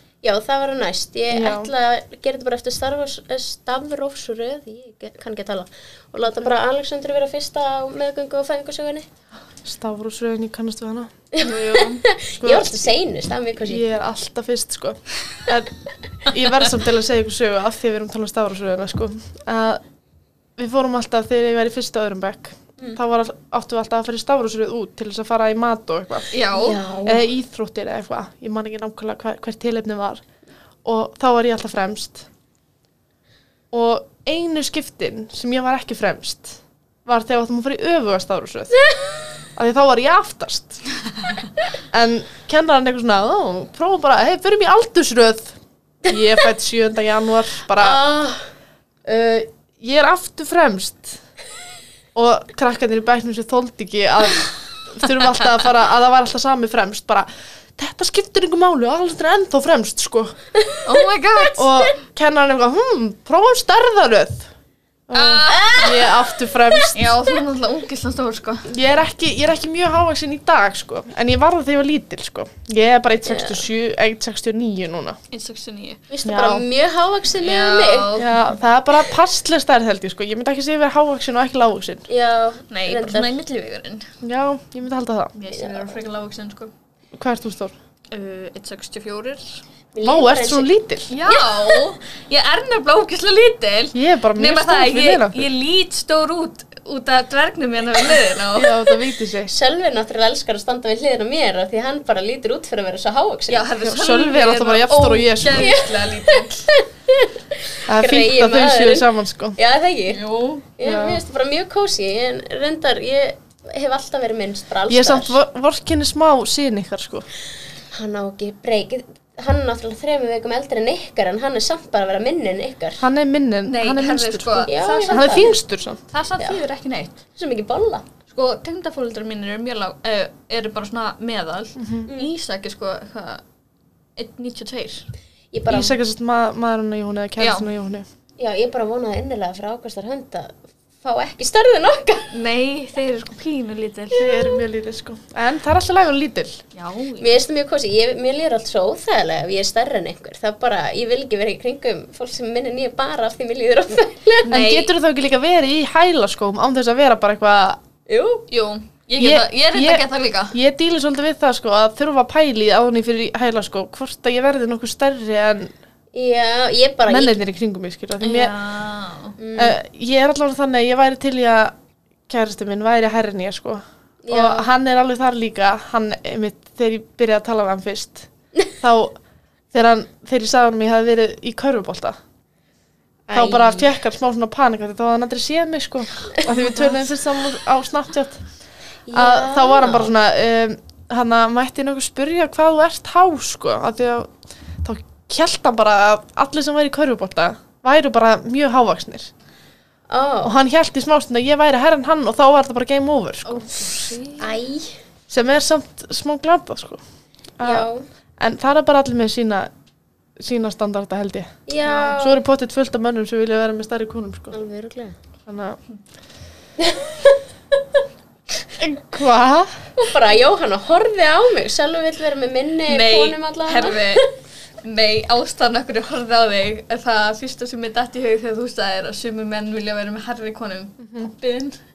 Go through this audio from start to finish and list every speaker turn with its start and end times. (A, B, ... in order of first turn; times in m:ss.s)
0:00.2-0:09.1 A
0:01.3-0:01.7 B
0:09.6-0:11.1 B
0:11.3-0:13.8 A
0:11.4-0:12.0 C
0:12.4-0:12.9 B
0:13.6-0:15.7 B
0:16.3-0:19.8 B
0:20.6-0:26.3 B
0:26.3-0:26.8 C
0:26.5-0:27.3 A
0:27.0-0:30.2 B
0:30.8-0:32.3 B
0:33.7-0:38.8 B
0:38.7-0:39.3 A
0:39.6-0:40.8 B
0:41.9-0:45.6 B
0:46.1-0:48.0 B
0:47.8-0:48.5 A
0:49.0-0:51.2 B
0:52.2-1:00.4 B
1:00.8-1:01.8 C
1:01.6-1:04.5 B
1:05.1-1:07.0 B
1:05.1-1:06.1 C
1:05.5-1:06.9 A
1:06.9-1:08.7 C
1:08.7-1:15.2 B
1:13.2-1:13.6 A
1:15.3-1:16.0 C
1:16.1-1:18.2 A
1:16.2-1:16.7 B
1:17.4-1:18.5 C
1:18.2-1:22.1 B
1:22.1-1:23.4 A
1:22.7-1:24.1 C
1:24.2-1:25.3 B
1:25.4-1:26.7 C
1:25.5-1:26.0 A
1:27.1-1:27.7 B
1:28.1-1:29.6 C
1:29.9-1:30.7 A
1:30.0-1:31.2 B
1:31.1-1:38.9 C
1:31.3-1:31.8 A
1:33.9-1:35.5 B
1:38.5-1:39.5 B
1:39.5-1:43.7 A
1:43.5-1:46.7 C
1:43.8-1:45.8 B
1:45.5-1:50.2 A
1:47.9-1:49.6 B
1:50.1-1:50.7 C
1:50.8-1:55.4 A
1:50.8-1:51.2 B
1:54.9-1:57.3 B
1:57.9-2:03.0 A
2:03.0-2:06.0 B
2:03.7-2:05.6 C
2:04.7-2:05.6 A
2:06.1-2:07.2 C
2:07.4-2:08.1 A
2:08.3-2:13.4 C
2:11.8-2:12.1 B
2:14.2-2:15.1 C
2:15.5-2:16.0 A
2:15.7-2:18.1 B
2:17.4-2:17.7 C
2:18.4-2:22.3 A
2:22.3-2:24.5 C
2:24.1-2:26.6 B
2:26.7-2:27.4 C
2:27.2-2:34.5 A
2:34.5-2:34.9 C
2:34.5-2:37.8 B
2:38.1-2:38.5 A
2:38.5-2:40.6 C
2:39.2-2:45.7 B
2:46.1-2:47.4 A
2:47.1-2:48.6 B
2:48.2-2:49.4 C
2:49.4-2:49.8 A
2:49.6-2:51.8 B
2:52.3-2:58.3 B
2:54.2-2:54.7 A
2:58.8-2:59.2 B
2:59.7-3:02.2 B
3:03.3-3:04.0 A
3:03.3-3:08.4 B
3:06.6-3:07.0 C
3:09.1-3:10.1 A
3:09.1-3:19.3 B
3:20.1-3:20.6 A
3:20.4-3:24.1 B
3:23.5-3:24.6 C
3:24.4-3:25.0 A
3:25.3-3:27.0 B
3:27.6-3:27.9 B
3:27.6-3:28.0 A
3:28.4-3:29.7 B
3:30.4-3:31.5 B
3:31.7-3:32.4 A
3:31.8-3:32.1 C
3:32.1-3:34.6 B
3:34.5-3:35.2 A
3:35.5-3:35.8 B
3:36.8-3:37.3 A
3:38.8-3:39.7 B
3:40.0-3:44.3 A
3:42.9-3:44.3 C
3:44.8-3:51.8 C